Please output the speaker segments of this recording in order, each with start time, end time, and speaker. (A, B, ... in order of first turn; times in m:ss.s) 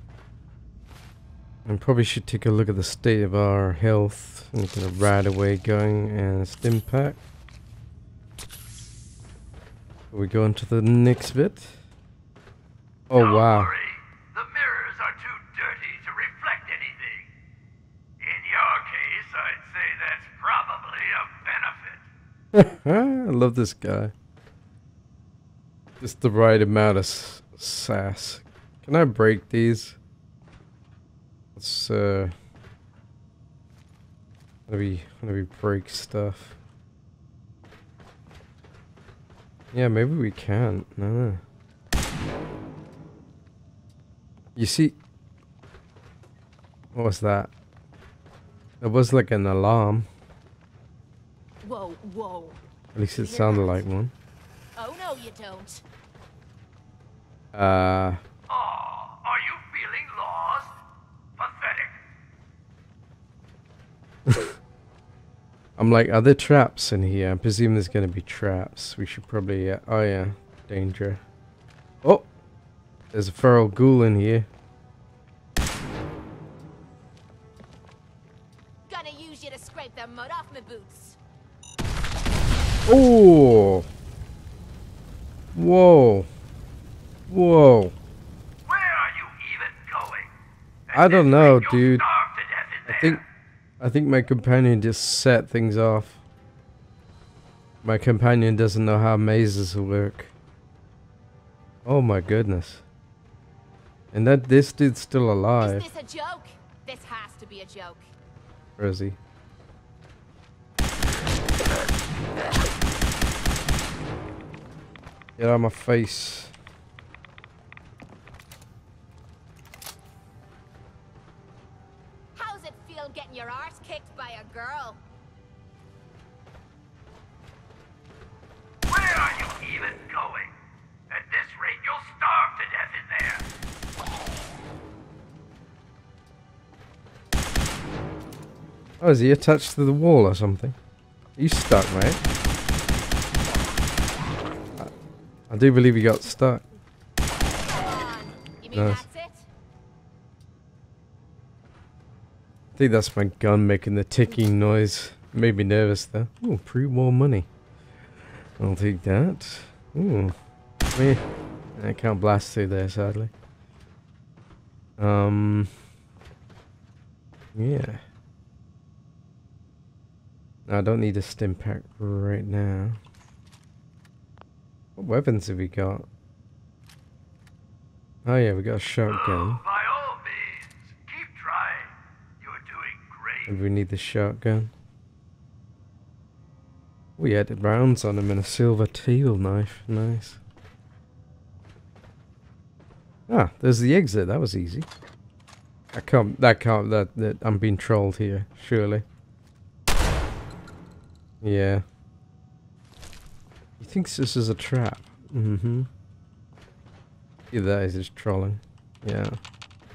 0:01.7-0:07.2 A
0:10.1-0:11.8 A
0:13.1-0:13.7 A
0:13.2-0:17.3 B
0:18.2-0:22.0 B
0:22.5-0:24.1 A
0:26.0-0:30.0 A
0:31.6-0:32.3 A
0:34.7-0:36.6 A
0:39.7-0:41.4 A
0:44.6-0:45.0 A
0:46.9-0:47.5 A
0:48.8-0:50.1 A
0:51.6-0:52.6 C
0:53.0-0:54.1 A
0:53.2-0:53.8 C
0:54.8-0:55.8 C
0:57.5-0:58.2 A
0:58.5-1:00.8 B
1:01.4-1:02.0 B
1:04.3-1:04.6 A
1:05.8-1:11.2 A
1:13.1-1:14.5 A
1:18.9-1:21.2 C
1:22.9-1:23.9 A
1:25.6-1:26.3 A
1:27.3-1:28.0 A
1:28.7-1:30.3 B
1:30.9-1:33.2 B
1:30.9-1:32.0 A
1:32.9-1:33.2 A
1:33.8-1:36.2 A
1:37.8-1:40.3 A
1:41.8-1:42.8 A
1:44.1-1:45.9 A
1:45.6-1:48.1 C
1:48.8-1:49.2 A
1:55.4-1:56.5 A
2:02.4-2:05.0 C
2:08.9-2:10.5 B
2:11.1-2:13.5 B
2:19.0-2:20.8 A
2:21.4-2:22.2 A
2:25.5-2:26.6 A
2:27.6-2:29.5 C
2:28.7-2:29.1 A
2:32.8-2:37.5 A
2:38.6-2:40.3 A
2:40.9-2:41.2 A
2:41.8-2:43.3 A
2:45.0-2:45.8 A
2:47.6-2:48.0 A
2:50.7-2:53.0 A
2:55.0-2:56.1 A
2:58.2-2:59.6 A
2:59.1-3:03.6 B
3:03.5-3:04.7 A
3:07.2-3:10.4 A
3:13.3-3:14.9 A
3:15.9-3:19.0 A
3:21.4-3:21.8 A
3:23.8-3:25.9 A
3:27.5-3:29.4 A